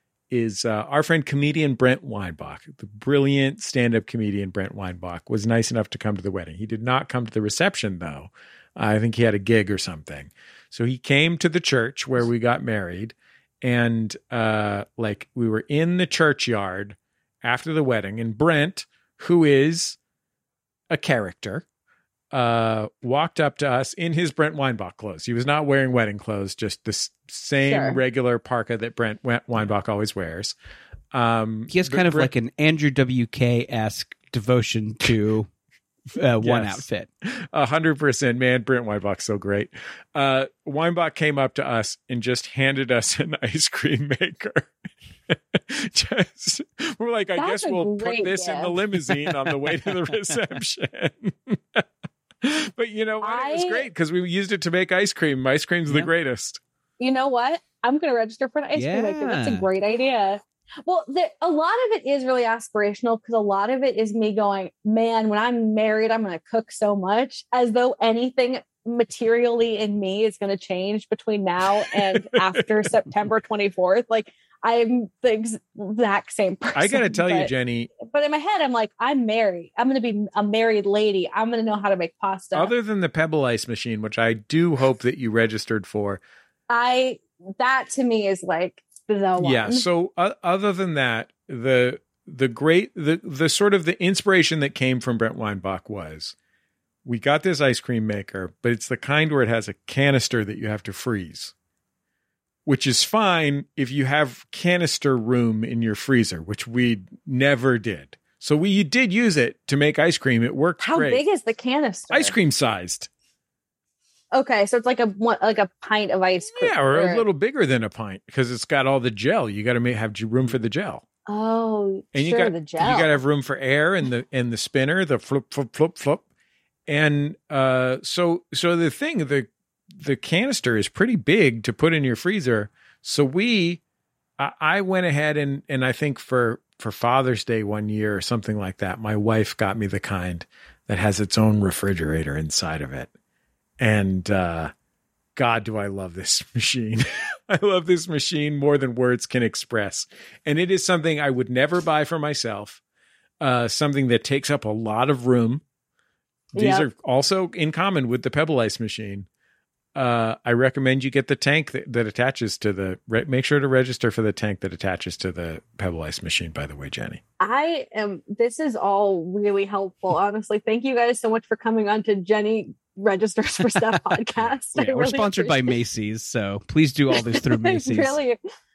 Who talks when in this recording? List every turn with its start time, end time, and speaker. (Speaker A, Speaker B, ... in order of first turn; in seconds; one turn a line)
Speaker A: 0.3-20.0
Speaker A: 20.9-21.6
Speaker A: 22.3-30.6
Speaker B: 27.6-28.0
Speaker A: 31.1-32.3
Speaker C: 31.7-35.5
Speaker C: 36.1-37.1
Speaker A: 36.4-36.9
Speaker A: 37.5-44.7
Speaker A: 45.3-51.8
Speaker B: 47.4-48.8
Speaker A: 52.4-56.6
Speaker B: 53.2-53.9
Speaker B: 57.0-82.7
Speaker C: 58.8-59.7
Speaker A: 71.8-72.9
Speaker A: 76.7-77.9
Speaker A: 82.5-86.2
Speaker B: 86.7-89.9
Speaker A: 89.4-96.3
Speaker A: 97.0-101.5
Speaker A: 102.7-111.2
Speaker B: 110.8-112.3
Speaker A: 112.1-113.1
Speaker B: 114.3-117.2
Speaker A: 116.4-121.0
Speaker B: 121.3-123.2
Speaker A: 122.1-126.2
Speaker A: 126.9-133.8
Speaker A: 134.4-143.1
Speaker A: 143.8-144.7
Speaker A: 145.4-152.8
Speaker A: 153.4-155.6
Speaker B: 156.6-156.9
Speaker A: 156.6-159.3
Speaker A: 159.9-167.2
Speaker B: 167.4-175.7
Speaker C: 174.8-178.2
Speaker B: 177.1-178.4